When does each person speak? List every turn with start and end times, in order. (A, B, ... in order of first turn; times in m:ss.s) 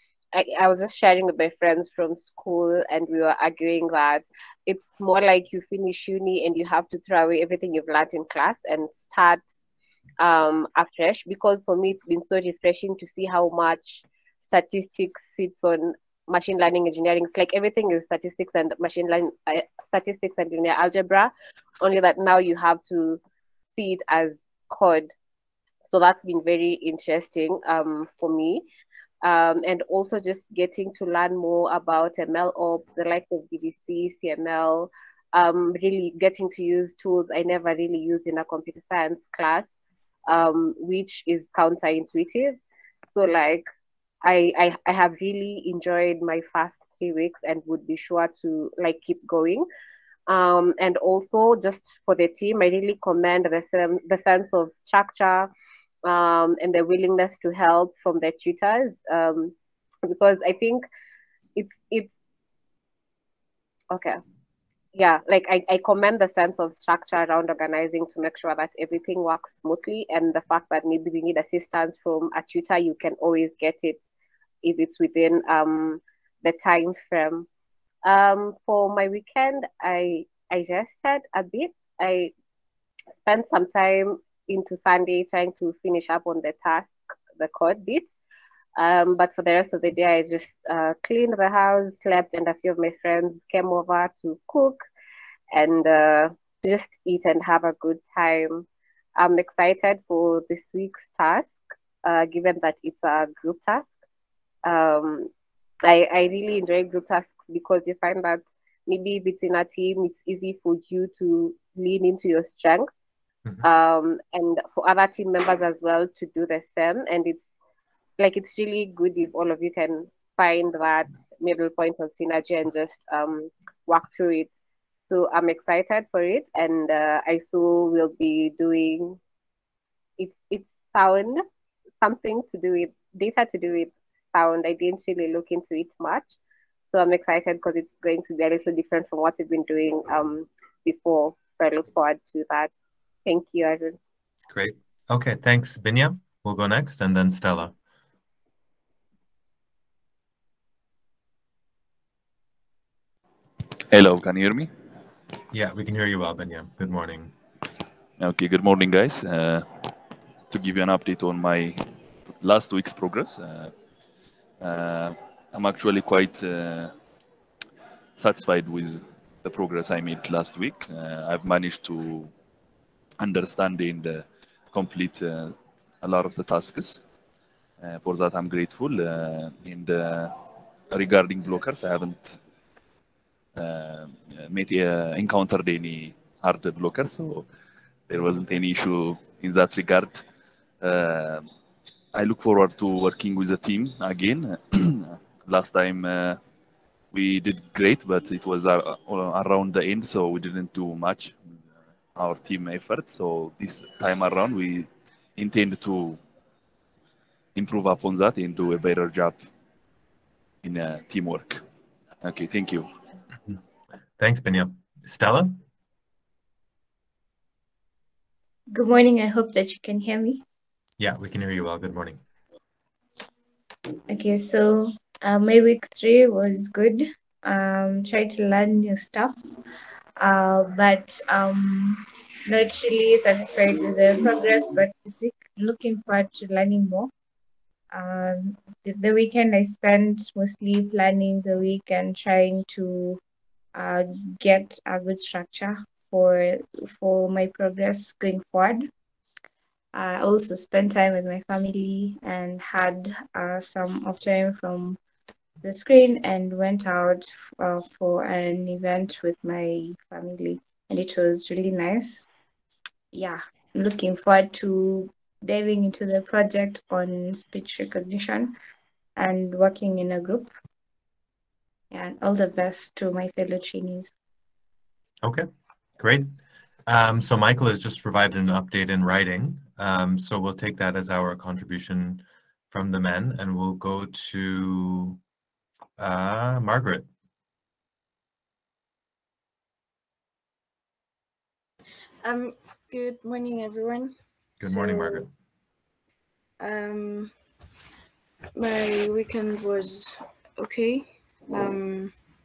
0:00.3-0:09.4 A
0:10.2-0:23.2 A
0:23.7-0:25.1 A
0:25.9-0:28.6 A
0:29.2-0:39.7 A
0:40.3-0:43.6 A
0:44.2-0:49.6 A
0:50.3-0:55.5 A
0:56.0-0:59.5 A
1:00.0-1:00.8 A
1:01.6-1:02.1 A
1:03.9-1:04.2 A
1:04.9-1:14.1 A
1:14.6-1:17.5 A
1:18.0-1:22.3 A
1:23.2-1:28.1 A
1:28.8-1:34.8 A
1:35.5-1:44.0 A
1:44.6-1:45.3 A
1:45.8-1:52.9 A
1:53.6-1:57.5 A
1:58.2-2:04.5 A
2:05.1-2:09.2 A
2:10.2-2:11.4 A
2:12.0-2:22.7 A
2:23.2-2:24.0 A
2:24.5-2:27.7 B
2:33.9-2:34.7 C
2:35.5-2:37.3 B
2:38.2-2:39.7 C
2:40.5-2:41.8 C
2:42.4-2:43.7 C
2:44.6-2:46.9 C
2:48.2-2:52.3 C
2:53.2-2:57.0 C
2:57.8-3:00.4 C
3:00.9-3:02.4 C
3:03.5-3:07.5 C
3:08.1-3:10.2 C
3:10.8-3:11.5 C
3:12.1-3:16.4 C
3:17.1-3:21.6 C
3:22.2-3:26.2 C
3:27.5-3:29.4 C
3:30.6-3:31.6 C
3:32.2-3:32.9 C
3:34.2-3:35.6 B
3:38.7-3:40.4 D
3:41.0-3:42.2 B
3:44.1-3:49.4 D
3:50.2-3:57.1 D
3:57.9-4:03.2 D
4:03.7-4:08.9 D
4:09.9-4:15.0 D
4:15.6-4:22.3 D
4:23.1-4:28.5 D
4:29.2-4:30.5 D
4:31.9-4:34.1 D
4:36.0-4:36.3 B
4:36.9-4:45.2 B
4:46.0-4:47.1 B
4:52.2-4:55.2 E
4:54.6-4:55.3 B
4:56.6-4:57.3 E
4:58.5-5:02.1 E